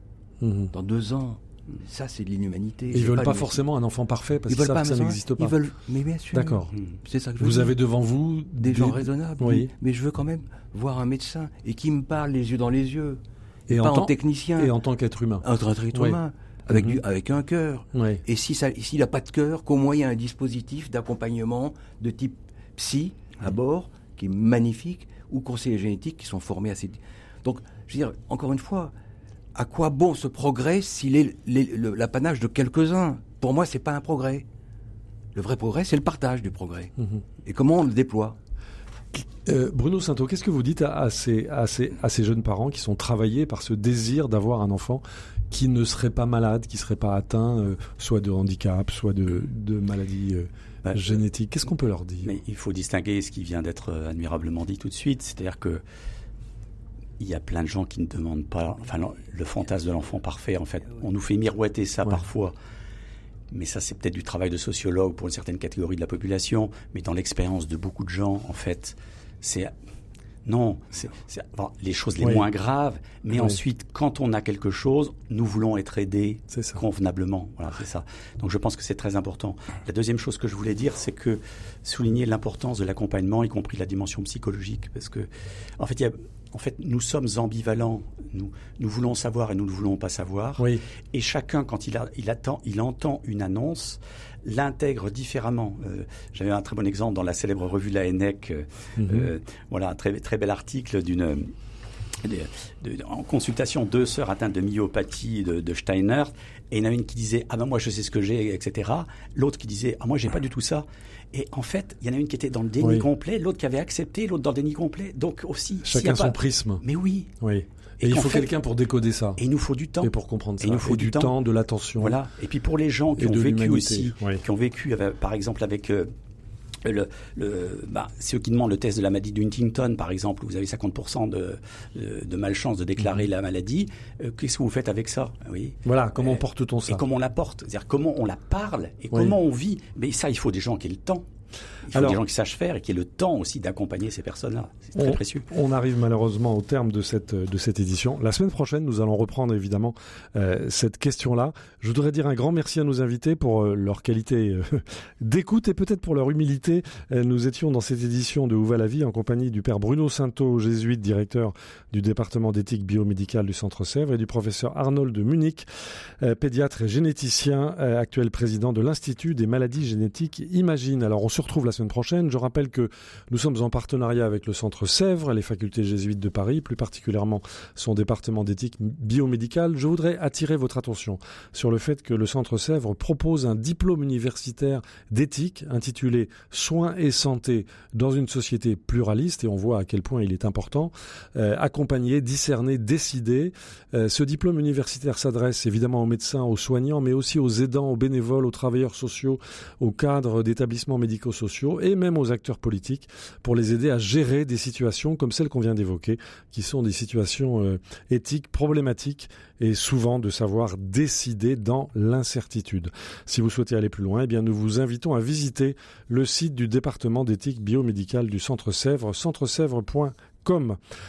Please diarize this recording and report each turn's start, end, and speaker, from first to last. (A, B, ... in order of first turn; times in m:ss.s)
0:00.4-0:00.7 A
0:00.7-0:03.6 B
0:02.9-0:05.5 A
0:04.5-0:07.8 B
0:06.3-0:06.7 A
0:07.4-0:09.7 A
0:08.6-0:14.7 B
0:13.7-0:16.2 A
0:15.4-0:28.9 B
0:16.7-0:17.0 A
0:17.9-0:18.2 A
0:29.5-0:34.4 B
0:35.3-0:38.4 B
0:39.1-0:52.3 A
0:50.8-0:51.1 C
0:52.2-0:55.8 C
0:57.2-1:02.5 C
1:03.5-1:09.7 C
1:10.4-1:25.3 C
1:13.3-1:13.6 A
1:16.5-1:16.8 A
1:25.8-1:41.5 C
1:39.0-1:39.3 A
1:42.2-1:57.3 C
1:52.8-1:53.1 A
1:55.8-1:56.8 A
1:57.4-1:59.4 A
1:58.0-1:58.5 C
1:59.4-2:01.3 C
2:00.0-2:02.2 A
2:02.0-2:06.1 C
2:03.2-2:04.4 A
2:06.8-2:21.2 C
2:15.8-2:17.0 A
2:21.8-2:25.4 C
2:21.9-2:22.2 A
2:25.0-2:45.6 A
2:46.2-3:40.8 A